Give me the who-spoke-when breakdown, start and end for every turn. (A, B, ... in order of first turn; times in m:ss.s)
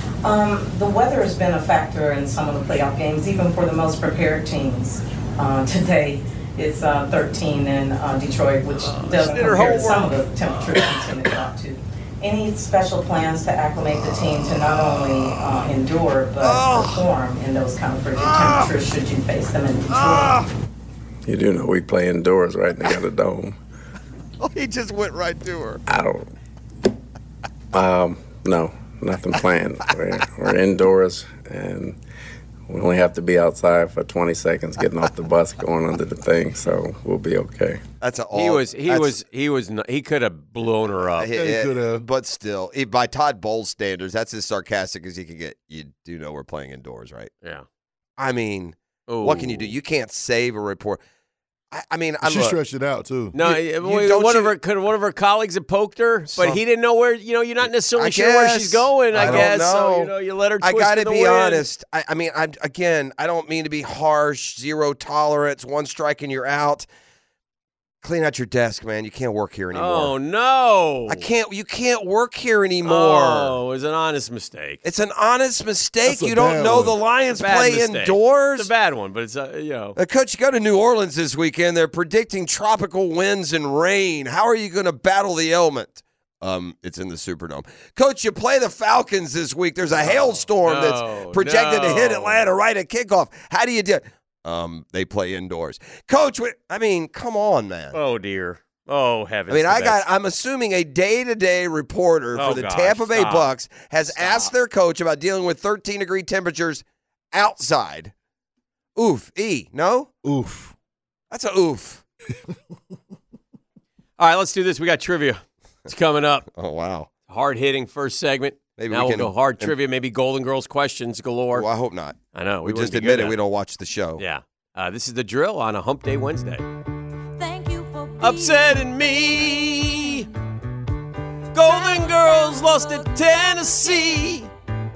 0:00.2-0:20.4 A
0:08.8-0:10.8 B
0:09.3-0:10.0 C
0:16.4-0:17.0 C
0:18.2-0:18.7 C
0:19.9-0:20.5 C
0:21.2-0:23.6 D
0:24.4-0:25.8 C
0:25.9-0:26.3 D
0:27.7-0:32.0 D
0:32.7-0:37.8 D
0:38.0-0:39.2 C
0:38.3-0:41.3 B
0:41.2-0:47.3 C
0:41.3-0:42.1 E
0:48.2-0:51.0 C
0:49.1-0:49.7 B
0:51.7-0:52.6 C
0:52.2-0:53.4 E
0:53.3-1:01.7 B
0:53.4-0:54.6 C
0:56.3-0:56.6 C
0:57.7-1:06.9 C
0:59.1-0:59.5 E
1:08.0-1:10.2 C
1:09.7-1:11.3 B
1:11.1-1:13.6 C
1:12.8-1:14.8 B
1:14.8-1:18.7 C
1:16.0-1:17.0 E
1:17.3-1:20.0 B
1:20.0-1:38.0 C
1:30.0-1:32.5 B
1:37.9-1:40.0 B
1:39.5-1:48.1 C
1:42.3-1:43.5 B
1:44.1-1:44.5 B
1:49.0-1:50.1 C
1:50.2-1:50.7 E
1:51.3-1:52.0 C
1:54.2-1:56.5 B
1:56.5-1:57.1 C
1:57.3-2:01.7 B
1:58.8-1:59.8 C
2:01.5-2:04.2 C
2:02.3-2:03.4 B
2:04.2-2:06.7 B
2:07.4-2:10.2 F
2:08.2-2:10.3 B
2:11.5-2:14.5 B
2:11.6-2:14.4 F